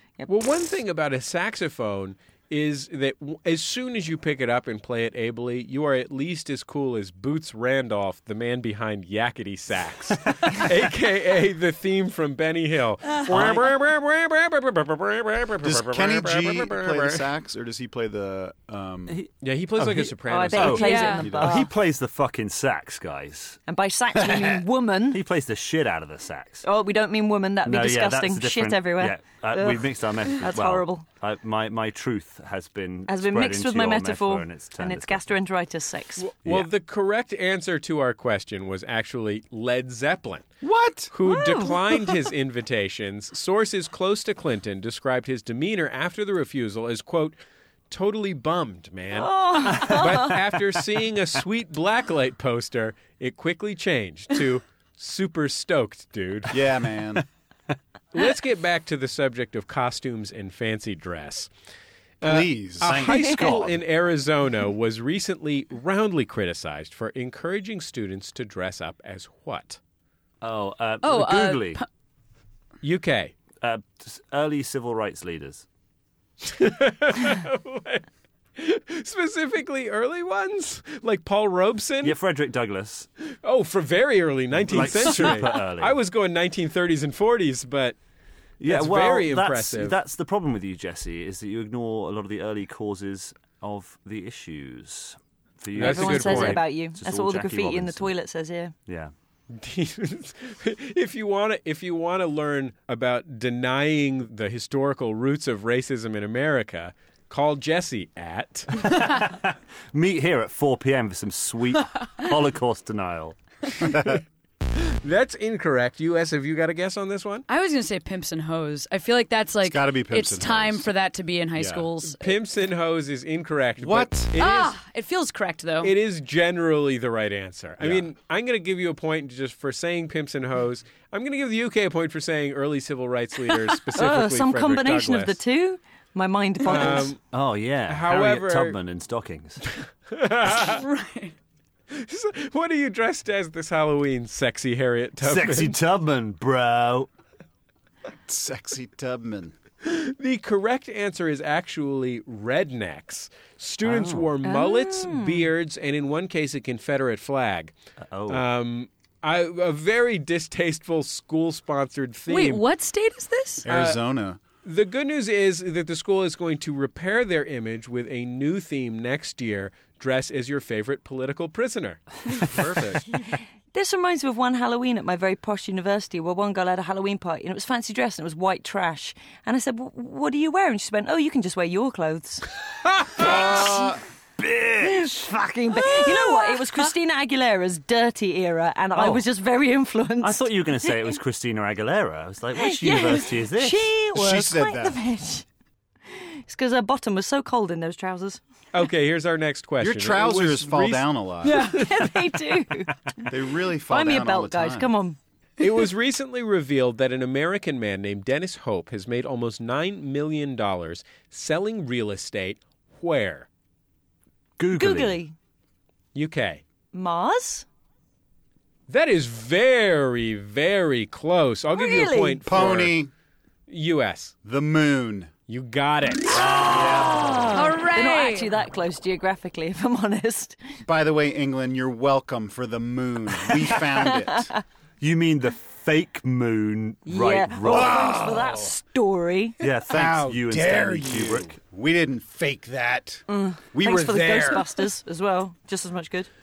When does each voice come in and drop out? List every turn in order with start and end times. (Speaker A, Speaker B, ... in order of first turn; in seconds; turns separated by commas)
Speaker A: 0.3-17.3, Speaker B: 13.3-13.6, Speaker C: 15.6-19.2, Speaker B: 19.1-23.6, Speaker A: 19.4-21.2, Speaker D: 20.3-21.7, Speaker E: 20.7-21.2, Speaker C: 21.3-21.6, Speaker D: 23.7-25.2, Speaker B: 24.1-26.6, Speaker D: 26.6-31.0, Speaker B: 27.6-35.4, Speaker D: 33.1-36.2, Speaker A: 36.2-40.5, Speaker C: 40.6-41.1, Speaker A: 41.1-47.4, Speaker D: 41.2-41.8, Speaker A: 47.9-56.6, Speaker D: 49.1-50.4, Speaker C: 56.5-57.2, Speaker A: 58.1-61.5, Speaker A: 62.2-69.8, Speaker C: 62.2-63.1, Speaker B: 62.8-63.8, Speaker B: 70.4-71.8, Speaker E: 71.0-71.8, Speaker A: 72.8-73.3, Speaker B: 73.6-75.6, Speaker A: 76.4-78.0, Speaker A: 78.6-82.2, Speaker B: 82.0-83.1, Speaker A: 83.4-88.0, Speaker B: 84.5-86.0, Speaker B: 88.6-98.1, Speaker A: 88.6-90.0, Speaker A: 95.7-96.6, Speaker D: 95.8-98.7, Speaker B: 98.8-99.1, Speaker A: 99.5-108.8, Speaker B: 108.8-113.4, Speaker A: 113.8-114.2, Speaker A: 114.7-117.4, Speaker E: 117.5-122.3, Speaker C: 119.6-120.9, Speaker C: 121.5-121.9, Speaker A: 122.0-124.7, Speaker C: 123.8-124.3, Speaker E: 124.4-125.9, Speaker A: 125.8-135.3, Speaker B: 127.8-128.0, Speaker D: 133.9-137.1, Speaker A: 136.7-137.2, Speaker B: 136.9-139.6, Speaker A: 137.8-138.8, Speaker A: 140.1-140.8, Speaker E: 140.4-141.3, Speaker A: 141.9-145.8, Speaker B: 145.2-147.1, Speaker C: 148.2-149.5, Speaker A: 149.8-157.7, Speaker B: 153.8-154.3, Speaker D: 154.4-155.5, Speaker B: 158.0-158.4, Speaker A: 158.3-162.6, Speaker E: 162.3-163.6, Speaker C: 163.6-164.4, Speaker A: 163.7-164.0, Speaker A: 164.6-173.0, Speaker C: 172.4-173.0, Speaker D: 173.7-182.5, Speaker C: 183.1-184.0, Speaker B: 183.2-183.8, Speaker D: 183.2-183.8, Speaker B: 184.4-186.1, Speaker D: 184.8-191.1, Speaker B: 188.9-189.2, Speaker B: 190.2-193.9, Speaker D: 192.6-195.4, Speaker C: 194.1-195.0, Speaker D: 196.1-198.4, Speaker A: 198.7-202.0, Speaker C: 199.8-201.7, Speaker D: 201.5-203.2, Speaker E: 201.5-201.8, Speaker C: 203.2-204.9, Speaker D: 203.9-205.2, Speaker A: 205.6-213.5, Speaker B: 214.6-215.2, Speaker D: 214.7-215.3, Speaker A: 216.1-216.6, Speaker D: 216.9-217.7, Speaker A: 218.9-222.9, Speaker D: 221.7-222.4, Speaker C: 222.4-223.1, Speaker A: 223.7-224.3, Speaker C: 224.4-225.3, Speaker A: 225.5-226.6, Speaker B: 226.4-227.5, Speaker D: 226.4-230.6, Speaker C: 226.5-227.6, Speaker E: 227.5-228.5, Speaker C: 230.8-234.5, Speaker D: 234.0-234.4, Speaker B: 235.0-238.2, Speaker D: 237.1-239.6, Speaker C: 237.7-238.7, Speaker B: 239.6-241.6, Speaker C: 239.6-244.7, Speaker D: 243.3-246.3